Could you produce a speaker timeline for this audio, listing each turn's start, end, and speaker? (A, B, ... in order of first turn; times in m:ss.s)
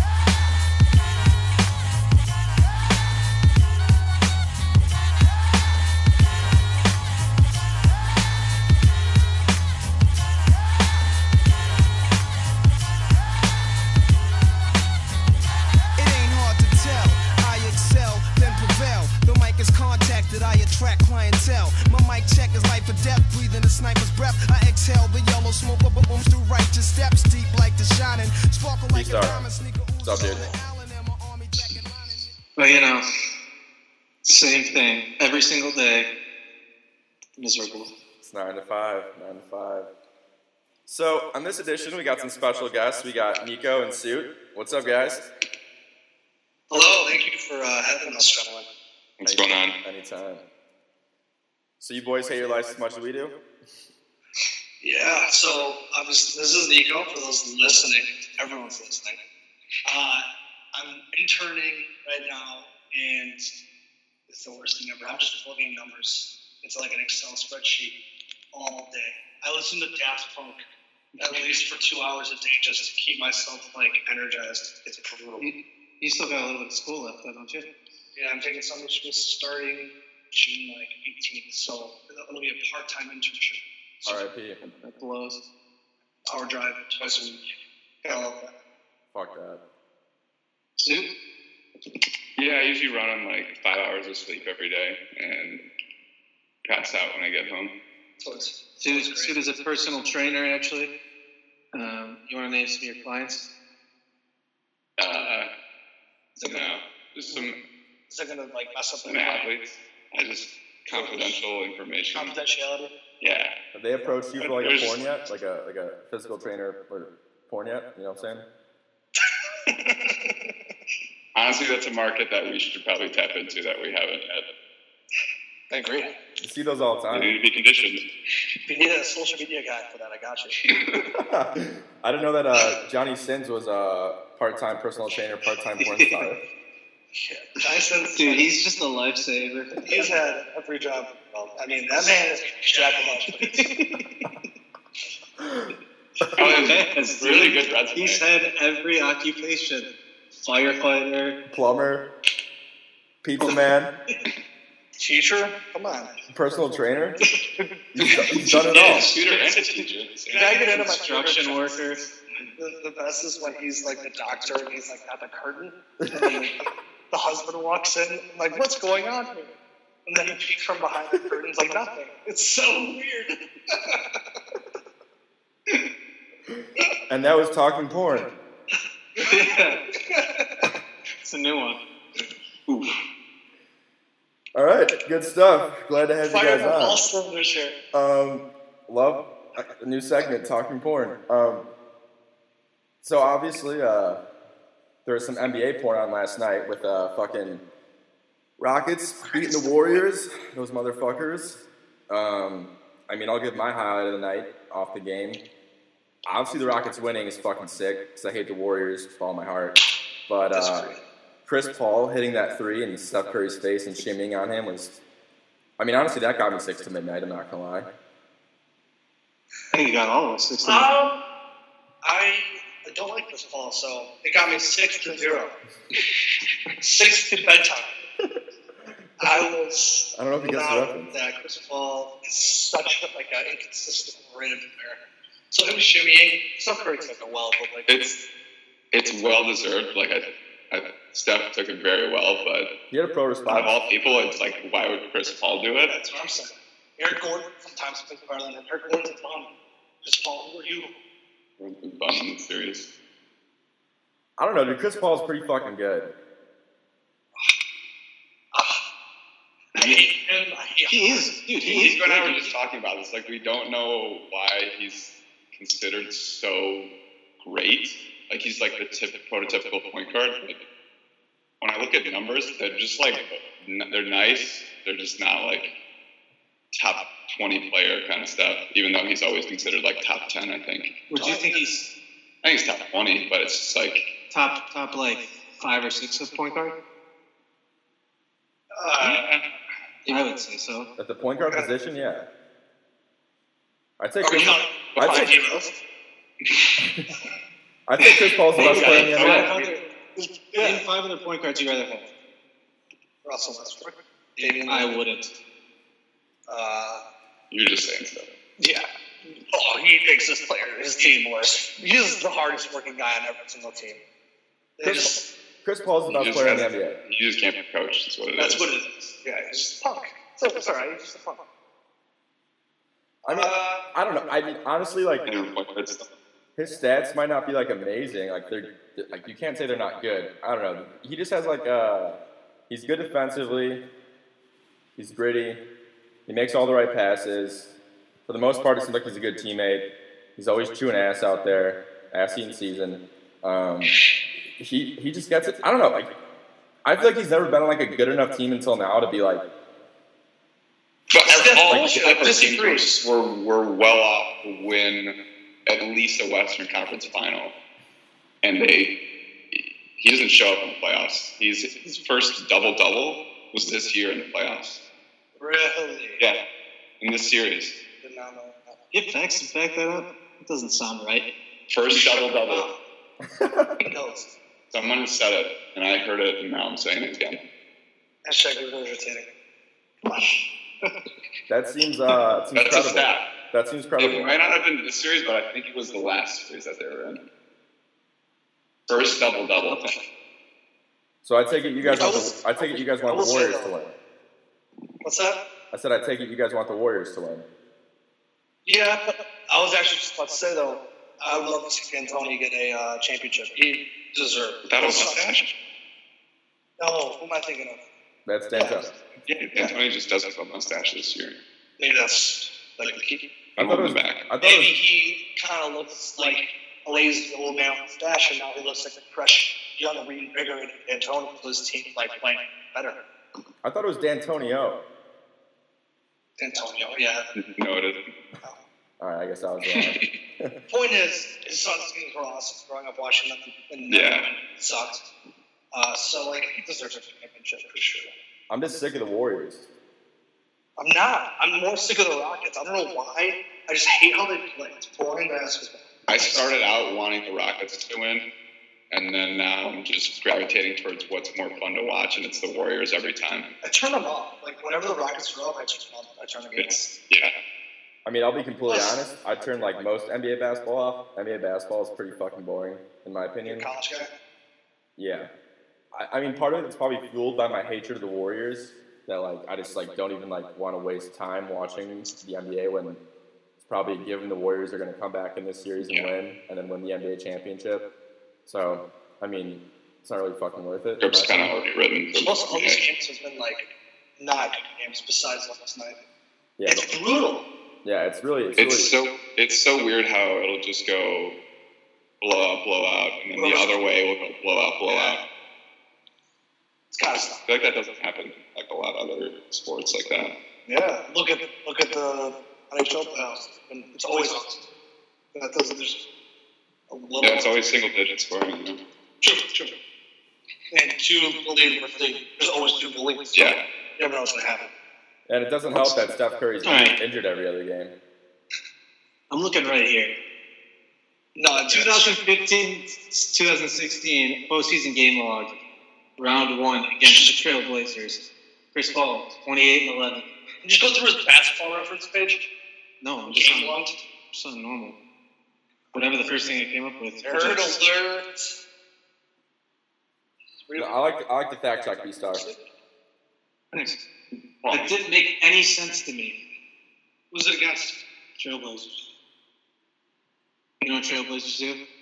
0:16.0-0:32.3 A
0:28.9-0:29.4 B
0:30.0-0:30.5 B
0:32.6-0:33.0 C
0:34.2-0:36.1 C
0:37.4-0:37.9 C
0:38.2-0:39.9 B
0:40.9-0:45.3 B
0:46.7-0:48.7 D
0:49.2-0:49.7 E
0:49.2-0:50.4 B
0:51.8-0:53.4 B
0:54.8-0:59.2 D
0:59.8-1:03.5 D
1:04.3-1:08.0 D
1:08.5-1:10.6 D
1:11.2-1:15.5 D
1:15.4-1:17.7 C
1:18.1-1:24.2 D
1:24.0-1:24.6 B
1:24.6-1:25.5 C
1:26.3-1:27.4 D
1:28.0-1:28.5 D
1:29.1-1:29.6 B
1:30.8-1:31.1 C
1:32.4-1:35.6 E
1:36.6-1:37.7 E
1:38.2-1:39.3 D
1:38.8-1:40.9 C
1:41.7-1:43.5 C
1:45.0-1:45.5 E
1:46.4-1:47.5 D
1:46.4-1:47.6 E
1:48.1-1:49.5 D
1:49.0-1:52.4 E
1:50.9-1:51.4 D
1:52.1-1:52.9 D
1:53.2-1:53.5 E
1:53.7-1:58.4 B
1:54.4-1:55.0 E
1:59.6-2:00.5 D
2:01.3-2:04.5 E
2:05.7-2:06.1 D
2:06.4-2:07.3 B
2:07.1-2:08.0 E
2:08.7-2:10.6 D
2:10.7-2:11.0 E
2:11.2-2:16.4 B
2:15.8-2:16.3 C
2:17.2-2:18.5 D
2:18.1-2:20.0 C
2:19.8-2:23.8 D
2:23.5-2:23.9 C
2:26.3-2:28.2 E
2:26.5-2:31.4 C
2:31.5-2:32.1 B
2:33.2-2:33.9 B
2:35.0-2:36.1 D
2:36.3-2:37.2 B
2:37.9-2:39.1 B
2:38.1-2:39.1 C
2:38.6-2:40.8 E
2:40.3-2:41.8 D
2:40.6-2:42.0 C
2:42.6-2:49.5 D
2:50.0-2:54.0 D
2:57.1-2:58.3 B
2:59.2-3:00.7 D
2:59.2-2:59.8 C
3:01.2-3:01.8 C
3:04.5-3:07.0 B
3:06.2-3:07.8 D
3:07.9-3:11.7 B
3:13.0-3:14.2 B
3:15.0-3:17.6 B
3:18.6-3:25.4 B
3:19.2-3:20.0 D
3:26.2-3:30.9 B
3:30.5-3:31.0 D
3:31.5-3:35.0 B
3:35.8-3:37.9 B
3:39.7-3:40.9 C
3:40.6-3:41.2 D
3:42.0-3:45.6 D
3:46.8-3:48.0 D
3:49.2-3:58.0 D
3:50.2-3:51.1 B
3:57.9-3:58.2 E
3:58.9-4:02.7 E
4:02.9-4:03.7 B
4:03.5-4:05.9 E
4:05.8-4:11.0 D
4:11.6-4:12.9 E
4:14.4-4:16.1 B
4:18.5-4:18.8 D
4:19.7-4:21.4 D
4:20.9-4:22.4 C
4:21.6-4:30.6 E
4:31.6-4:35.7 E
4:36.7-4:41.0 E
4:41.1-4:41.9 C
4:41.1-4:41.6 D
4:42.4-4:44.1 E
4:44.3-4:46.8 C
4:48.7-4:49.4 D
4:49.0-4:49.4 E
4:50.0-4:50.9 C
4:51.0-4:52.3 B
4:54.0-4:55.3 B
4:54.2-4:55.8 D
4:57.9-4:59.5 B
4:58.5-4:59.8 C
4:58.6-5:00.8 D
5:00.6-5:02.1 C
5:03.2-5:05.0 D
5:04.6-5:05.3 C
5:06.5-5:07.0 D
5:07.5-5:08.3 E
5:08.6-5:14.0 D
5:14.8-5:15.3 D
5:14.8-5:17.0 B
5:16.1-5:18.7 E
5:18.4-5:21.4 D
5:23.2-5:23.9 D
5:23.3-5:25.2 B
5:25.2-5:26.1 E
5:26.6-5:32.2 B
5:32.7-5:33.8 B
5:35.0-5:35.6 B
5:36.3-5:37.7 B
5:38.3-5:44.0 B
5:44.6-5:46.2 B
5:46.8-5:49.4 B
5:51.1-5:55.2 E
5:51.2-5:53.0 D
5:55.7-5:57.6 E
5:58.4-5:59.0 E
5:59.5-6:04.8 E
6:05.4-6:06.2 D
6:07.0-6:07.8 E
6:08.0-6:08.8 D
6:08.9-6:11.3 C
6:11.7-6:12.7 E
6:11.9-6:12.8 D
6:13.4-6:13.7 B
6:13.8-6:14.3 D
6:14.7-6:17.4 E
6:18.2-6:19.3 D
6:20.0-6:20.4 D
6:21.5-6:24.3 B
6:22.5-6:23.3 E
6:24.0-6:27.2 E
6:28.9-6:30.0 E
6:31.2-6:33.9 B
6:31.8-6:33.7 D
6:35.0-6:35.4 D
6:35.7-6:37.4 B
6:38.6-6:45.3 D
6:44.7-6:45.5 E
6:46.8-6:47.8 D
6:48.2-6:48.9 B
6:48.5-6:48.9 D
6:49.3-6:51.4 E
6:51.8-6:53.3 D
6:53.6-6:54.7 B
6:53.6-6:54.2 E
6:54.4-7:03.0 D
7:03.6-7:04.8 B
7:06.4-7:07.3 D
7:07.3-7:08.0 E
7:09.0-7:10.5 B
7:10.7-7:15.1 D
7:13.9-7:14.3 E
7:15.7-7:18.1 D
7:18.5-7:19.6 B
7:20.8-7:26.5 D
7:26.1-7:28.2 E
7:28.9-7:33.5 E
7:33.6-7:36.9 D
7:36.6-7:37.3 E
7:38.0-7:43.7 B
7:38.7-7:39.0 D
7:43.4-7:44.1 D
7:45.0-7:45.3 B
7:45.9-7:53.0 B
7:53.6-7:57.9 B
7:55.8-7:56.1 E
7:58.4-8:01.5 B
8:01.0-8:02.8 E
8:02.1-8:06.0 D
8:06.6-8:06.9 B
8:06.6-8:07.5 D
8:07.8-8:08.9 B
8:08.6-8:11.4 E
8:12.2-8:15.2 E
8:13.3-8:13.8 D
8:14.9-8:15.2 D
8:16.9-8:17.4 D
8:17.4-8:20.3 E
8:20.7-8:24.7 D
8:25.3-8:26.1 D
8:26.9-8:27.5 D
8:27.2-8:28.8 E
8:29.2-8:29.8 D
8:30.7-8:34.7 D
8:33.3-8:33.6 E
8:35.3-8:37.9 B
8:36.6-8:37.0 C
8:39.3-8:40.1 C
8:41.4-8:42.2 D
8:41.7-8:45.6 C
8:46.2-8:50.3 C
8:47.0-8:47.3 D
8:50.6-8:52.5 D
8:53.0-8:53.8 C
8:53.3-8:54.0 D
8:54.3-8:55.0 C
8:55.9-8:57.8 C
8:56.2-8:56.5 D
8:57.2-8:58.6 D
9:00.6-9:00.9 D
9:00.8-9:02.5 B
9:03.7-9:04.0 C
9:04.6-9:04.9 E
9:04.7-9:06.4 C
9:07.3-9:08.0 D
9:08.4-9:09.0 C
9:10.8-9:11.8 C